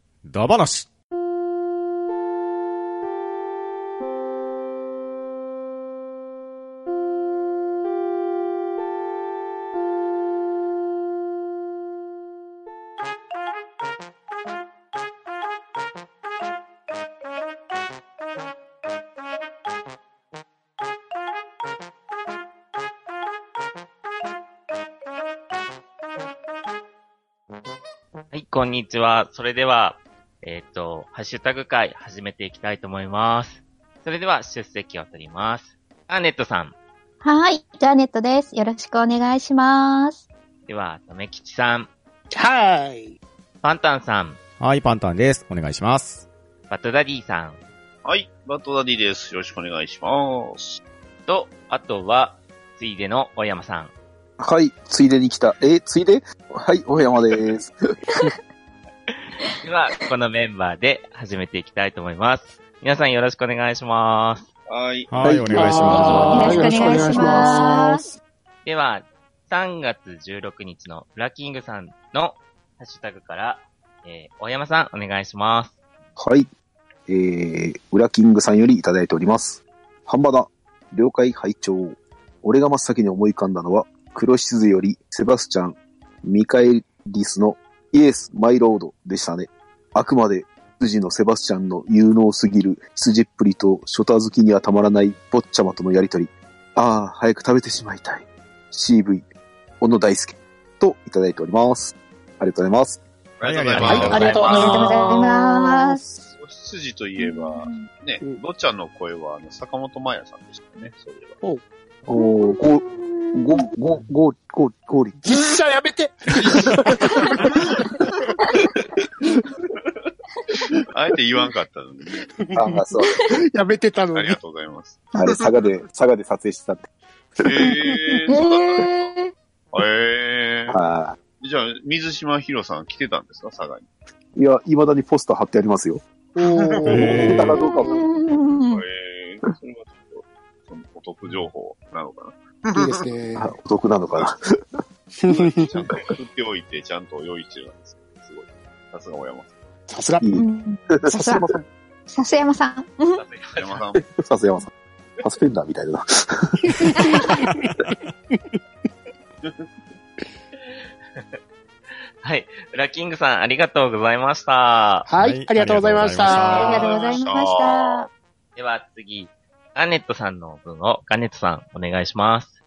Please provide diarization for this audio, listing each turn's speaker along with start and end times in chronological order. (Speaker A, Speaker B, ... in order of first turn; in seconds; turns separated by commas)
Speaker A: 0.3-0.9, Speaker B: 28.3-36.7, Speaker C: 37.2-40.2, Speaker B: 40.7-41.9, Speaker D: 42.3-43.2, Speaker B: 43.6-44.4, Speaker A: 44.6-46.2, Speaker B: 46.7-47.6, Speaker E: 48.0-50.8, Speaker B: 51.2-53.9, Speaker F: 54.4-58.3, Speaker B: 59.6-64.5, Speaker E: 64.7-65.1, Speaker A: 65.1-66.8, Speaker F: 65.2-66.8, Speaker D: 65.5-68.1, Speaker C: 65.9-68.0, Speaker B: 68.6-75.7, Speaker F: 76.2-76.5, Speaker F: 77.1-99.2, Speaker F: 99.8-103.0, Speaker E: 103.4-104.7, Speaker A: 103.4-105.0, Speaker D: 103.8-106.0, Speaker B: 103.9-104.5, Speaker C: 104.1-106.0, Speaker E: 106.3-111.3, Speaker C: 107.2-107.9, Speaker F: 112.0-115.4, Speaker C: 112.1-113.6, Speaker D: 115.2-117.6, Speaker E: 120.9-122.3, Speaker D: 122.3-124.4, Speaker F: 122.5-123.2, Speaker E: 124.1-125.0, Speaker F: 125.1-126.9, Speaker F: 127.4-127.7, Speaker E: 127.4-129.1, Speaker C: 128.3-129.3, Speaker E: 129.7-130.8, Speaker F: 130.7-131.2, Speaker E: 131.4-133.9, Speaker F: 134.3-136.0, Speaker D: 136.3-137.6, Speaker E: 136.4-137.1, Speaker A: 136.8-137.6, Speaker F: 136.9-138.0, Speaker C: 137.6-138.8, Speaker E: 138.5-143.1, Speaker D: 142.7-143.5, Speaker F: 143.3-144.4, Speaker D: 145.2-145.8, Speaker E: 145.2-149.5, Speaker D: 149.9-150.4, Speaker C: 150.3-151.5, Speaker F: 151.0-151.6, Speaker C: 152.1-153.2, Speaker B: 153.1-153.8, Speaker E: 153.5-154.1, Speaker F: 154.2-154.7, Speaker F: 155.2-157.4, Speaker C: 156.9-157.2, Speaker D: 157.3-158.5, Speaker B: 162.2-165.1, Speaker D: 165.1-166.7, Speaker A: 165.2-166.9, Speaker C: 166.2-168.1, Speaker E: 166.3-168.1, Speaker B: 168.6-172.5